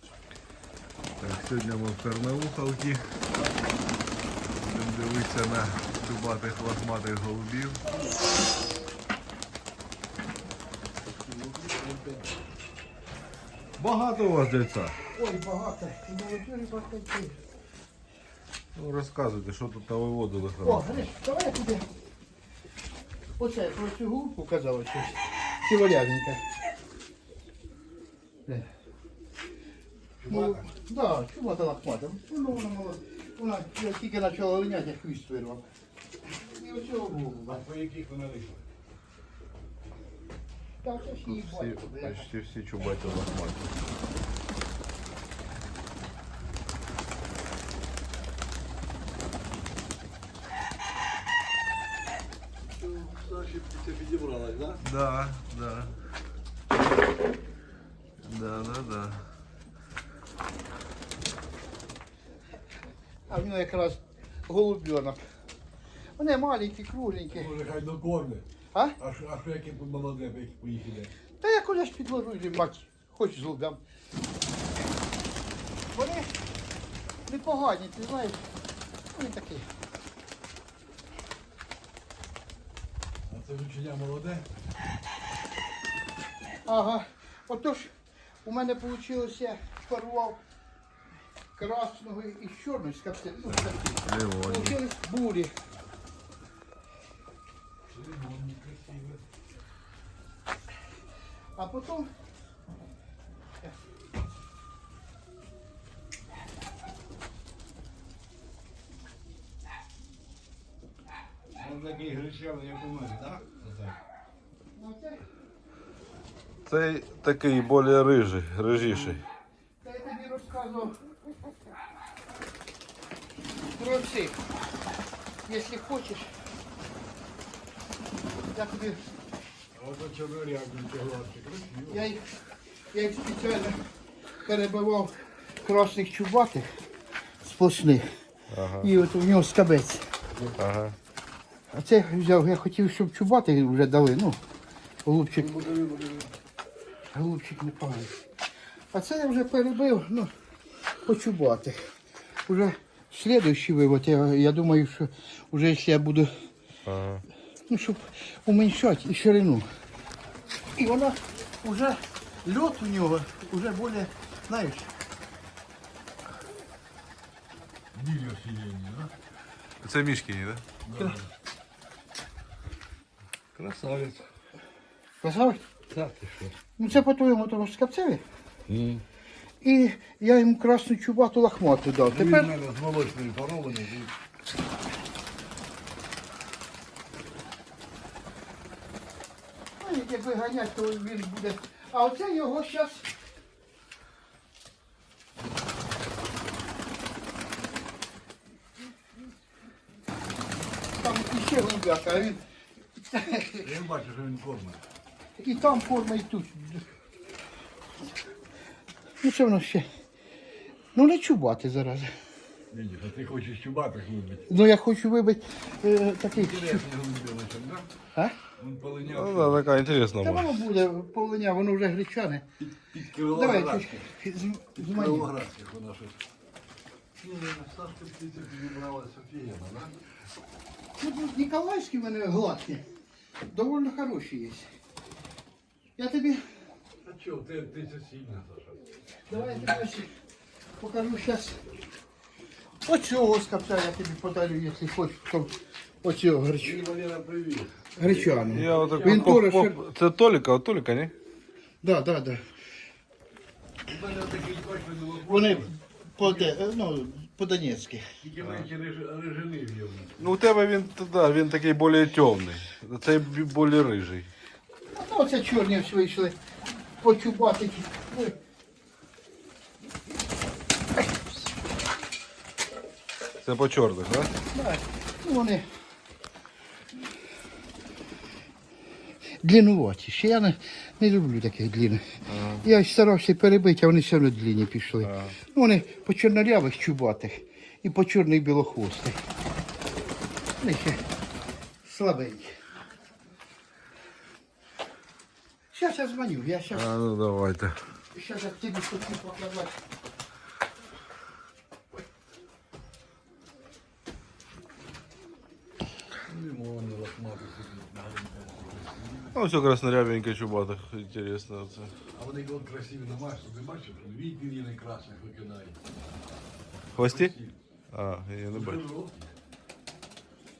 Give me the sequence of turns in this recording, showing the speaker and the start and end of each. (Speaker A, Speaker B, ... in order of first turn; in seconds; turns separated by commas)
Speaker A: 1.2-3.2, Speaker A: 4.5-7.8, Speaker B: 11.1-12.4, Speaker A: 13.8-15.0, Speaker C: 15.1-17.4, Speaker A: 18.7-21.1, Speaker C: 20.6-21.9, Speaker C: 23.4-26.4, Speaker B: 30.2-30.7, Speaker C: 30.3-35.6, Speaker C: 36.3-37.6, Speaker B: 37.5-38.6, Speaker C: 40.8-42.3, Speaker A: 41.3-43.8, Speaker B: 52.8-54.8, Speaker A: 54.8-56.0, Speaker A: 58.2-59.3, Speaker C: 63.3-65.2, Speaker C: 66.2-67.5, Speaker B: 67.3-68.4, Speaker B: 69.0-71.1, Speaker C: 71.4-73.8, Speaker C: 75.9-76.3, Speaker C: 77.3-78.4, Speaker C: 79.1-79.7, Speaker B: 83.3-84.5, Speaker C: 86.7-87.9, Speaker C: 88.4-90.4, Speaker C: 91.5-95.5, Speaker A: 94.0-94.8, Speaker B: 97.9-99.2, Speaker C: 101.5-102.1, Speaker B: 111.5-114.0, Speaker C: 114.7-115.2, Speaker A: 116.7-119.2, Speaker B: 118.7-119.2, Speaker C: 119.8-121.0, Speaker C: 123.7-124.4, Speaker C: 125.5-126.3, Speaker C: 128.5-129.0, Speaker B: 129.7-132.1, Speaker C: 131.9-132.2, Speaker C: 132.9-133.8, Speaker C: 134.4-136.7, Speaker C: 137.4-138.1, Speaker A: 138.5-138.9, Speaker C: 138.8-140.1, Speaker A: 140.6-140.9, Speaker C: 141.7-144.4, Speaker C: 145.0-145.5, Speaker B: 145.3-146.3, Speaker C: 147.1-148.2, Speaker C: 148.9-150.3, Speaker C: 151.0-151.8, Speaker C: 152.5-156.3, Speaker A: 156.8-157.2, Speaker C: 157.7-159.7, Speaker C: 160.8-164.9, Speaker B: 167.9-169.1, Speaker A: 169.8-170.6, Speaker B: 170.8-171.3, Speaker B: 173.6-174.2, Speaker C: 175.2-175.6, Speaker B: 175.9-176.5, Speaker C: 176.8-178.2, Speaker B: 178.7-179.0, Speaker C: 179.6-182.5, Speaker B: 182.0-184.1, Speaker C: 189.8-193.1, Speaker C: 201.0-202.4, Speaker C: 203.0-203.6, Speaker B: 203.6-204.8, Speaker C: 205.4-206.8, Speaker C: 209.2-209.9, Speaker C: 210.9-212.1, Speaker B: 212.7-214.5, Speaker C: 214.5-216.8, Speaker B: 216.3-217.9, Speaker B: 218.6-219.6, Speaker A: 219.1-220.6, Speaker C: 220.2-222.4, Speaker B: 222.6-224.1, Speaker C: 223.3-225.3, Speaker B: 224.8-226.2, Speaker B: 227.2-229.9, Speaker C: 231.0-232.8, Speaker C: 233.5-234.7, Speaker C: 236.0-236.4, Speaker B: 237.0-238.8, Speaker C: 239.2-240.1, Speaker B: 239.3-239.8, Speaker C: 240.8-241.6, Speaker C: 242.8-246.8, Speaker B: 246.6-249.4, Speaker C: 248.0-249.8, Speaker A: 248.4-251.1, Speaker C: 251.8-252.4, Speaker B: 253.9-256.6, Speaker C: 255.2-258.1, Speaker B: 258.2-260.3, Speaker A: 258.4-258.7, Speaker A: 260.2-264.3, Speaker C: 264.9-266.4, Speaker C: 267.0-268.4, Speaker A: 273.4-274.3, Speaker C: 274.5-275.6, Speaker C: 279.4-289.2, Speaker A: 282.3-282.6, Speaker A: 285.0-285.4, Speaker C: 290.6-291.0, Speaker C: 291.8-292.5, Speaker C: 295.7-296.9, Speaker A: 296.7-297.9, Speaker C: 298.1-299.8, Speaker B: 306.3-309.4, Speaker A: 309.3-312.0, Speaker B: 312.1-315.8, Speaker B: 316.9-317.6, Speaker A: 316.9-317.3, Speaker A: 317.9-318.8, Speaker B: 318.5-319.3